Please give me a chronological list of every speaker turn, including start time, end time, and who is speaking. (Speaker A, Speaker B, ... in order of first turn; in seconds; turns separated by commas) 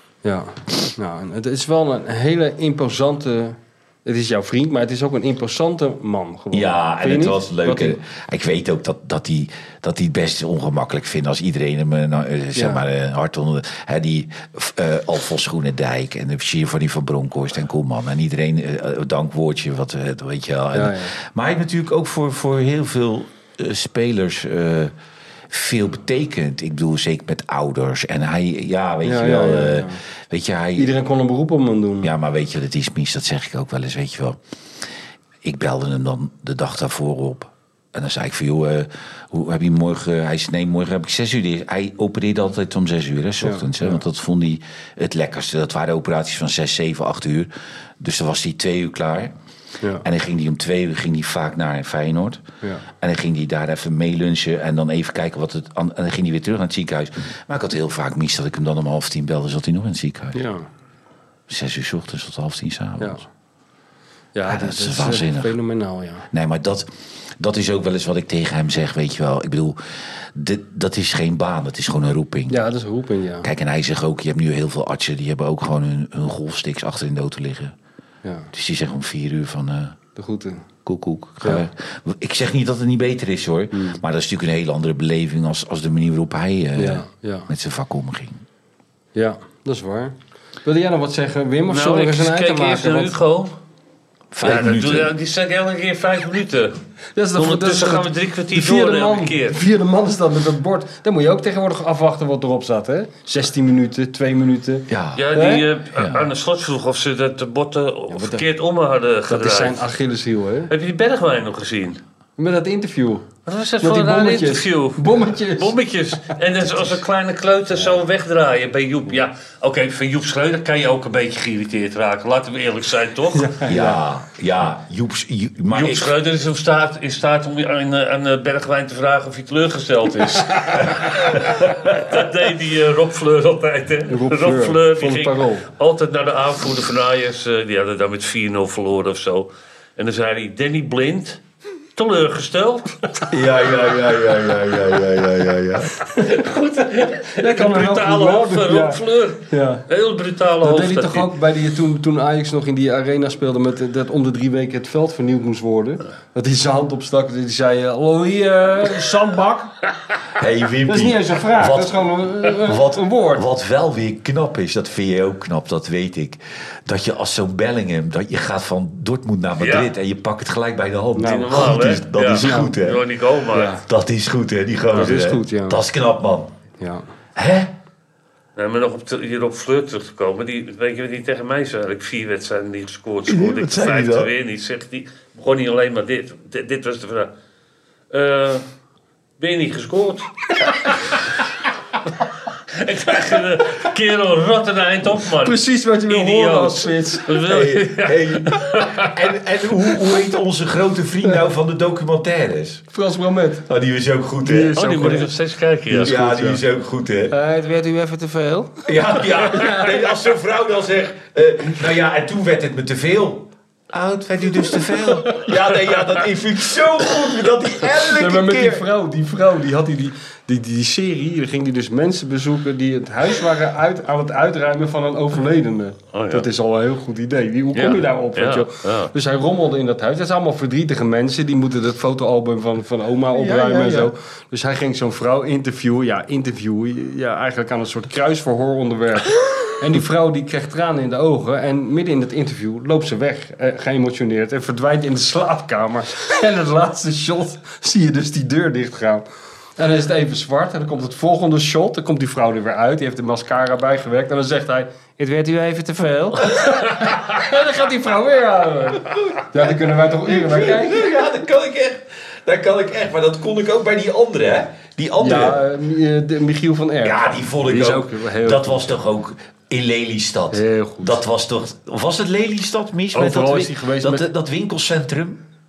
Speaker A: 0.2-8.0, Speaker B: 6.5-24.9, Speaker A: 12.5-12.8, Speaker A: 20.7-21.1, Speaker B: 25.5-30.9, Speaker A: 29.1-30.0, Speaker A: 30.8-32.1, Speaker B: 32.0-34.4, Speaker B: 35.4-47.5, Speaker A: 43.4-44.0, Speaker B: 48.0-49.3, Speaker B: 50.0-52.4, Speaker B: 53.0-60.4, Speaker A: 60.3-60.7, Speaker B: 61.5-63.2, Speaker A: 63.0-63.2, Speaker A: 64.3-66.3, Speaker B: 64.5-65.5, Speaker B: 66.3-66.9, Speaker B: 67.4-72.6, Speaker A: 72.5-73.5, Speaker B: 73.4-77.8, Speaker B: 78.5-80.0, Speaker A: 80.2-80.7, Speaker B: 80.9-88.4, Speaker A: 83.7-84.0, Speaker A: 86.8-87.5, Speaker A: 89.2-93.2, Speaker C: 91.7-93.5, Speaker B: 94.3-95.1, Speaker C: 94.4-96.8, Speaker A: 97.2-105.7, Speaker C: 97.3-99.6, Speaker B: 104.9-105.3, Speaker C: 105.2-109.8, Speaker B: 106.0-106.3, Speaker A: 108.1-108.4, Speaker A: 109.3-110.7, Speaker C: 110.7-112.0, Speaker A: 112.4-113.3, Speaker C: 113.5-123.6, Speaker A: 113.8-115.7, Speaker A: 123.3-124.0, Speaker B: 123.7-126.1, Speaker C: 125.7-141.4, Speaker A: 134.1-135.7, Speaker C: 141.9-143.2, Speaker B: 143.3-145.9, Speaker C: 146.1-151.3, Speaker A: 147.4-149.8, Speaker A: 150.6-159.7, Speaker B: 160.3-173.1, Speaker A: 160.9-163.4, Speaker C: 169.6-169.9, Speaker A: 171.2-172.8, Speaker C: 171.2-173.8, Speaker A: 173.5-173.8, Speaker B: 173.8-176.5, Speaker A: 174.9-175.8, Speaker A: 176.8-177.0, Speaker B: 177.4-177.7, Speaker C: 178.6-187.3, Speaker B: 183.3-184.3, Speaker C: 188.1-188.6, Speaker C: 189.4-191.2, Speaker C: 192.7-199.2, Speaker A: 195.4-197.4, Speaker B: 197.4-202.9, Speaker A: 202.9-203.7, Speaker B: 203.7-205.1, Speaker A: 204.4-205.3, Speaker C: 204.8-206.2, Speaker A: 205.9-206.6, Speaker B: 205.9-207.3, Speaker A: 207.3-210.0, Speaker B: 208.9-218.9, Speaker A: 218.1-249.2, Speaker C: 226.1-226.5, Speaker C: 227.7-229.1, Speaker B: 233.3-234.1, Speaker A: 249.8-261.2, Speaker B: 259.1-265.6, Speaker A: 265.2-268.9, Speaker B: 267.0-275.4, Speaker A: 270.5-271.2, Speaker A: 273.1-274.3